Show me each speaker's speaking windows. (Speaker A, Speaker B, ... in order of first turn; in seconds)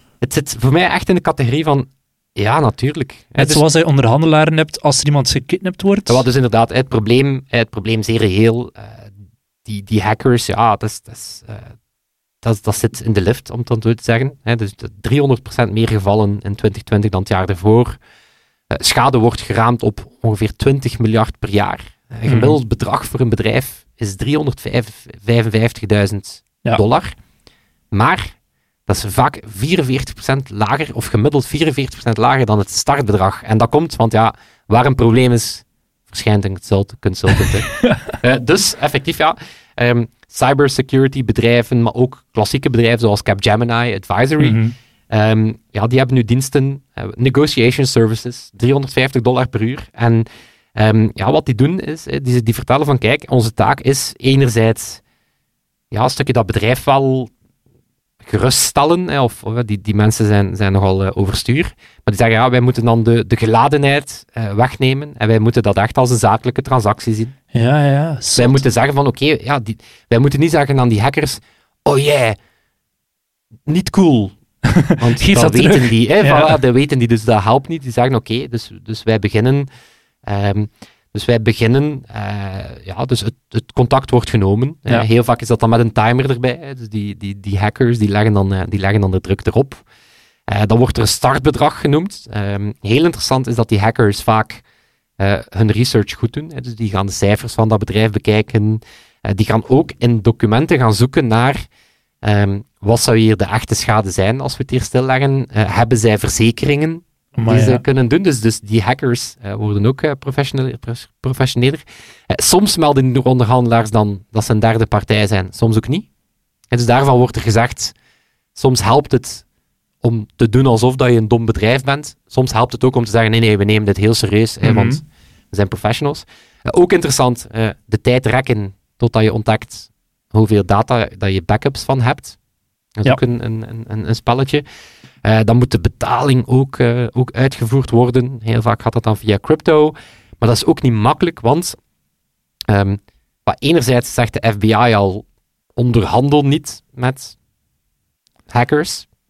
Speaker A: 0.2-3.6, 6.1-9.1, 9.7-11.7, 12.4-18.0, 18.7-27.1, 27.9-28.3, 28.9-55.0, 55.9-57.3, 58.2-67.3, 68.3-72.4, 73.7-74.3, 75.0-79.7, 80.2-89.8, 90.5-94.6, 95.2-101.6, 102.2-116.1, 116.7-117.9, 118.5-119.4, 120.0-132.4, 133.0-134.7, 135.2-141.8, 142.7-147.4, 148.5-149.1
Speaker B: 3.4-6.2, 22.3-22.6, 44.4-44.7, 67.5-68.6, 74.7-76.6, 107.4-107.8, 124.6-125.0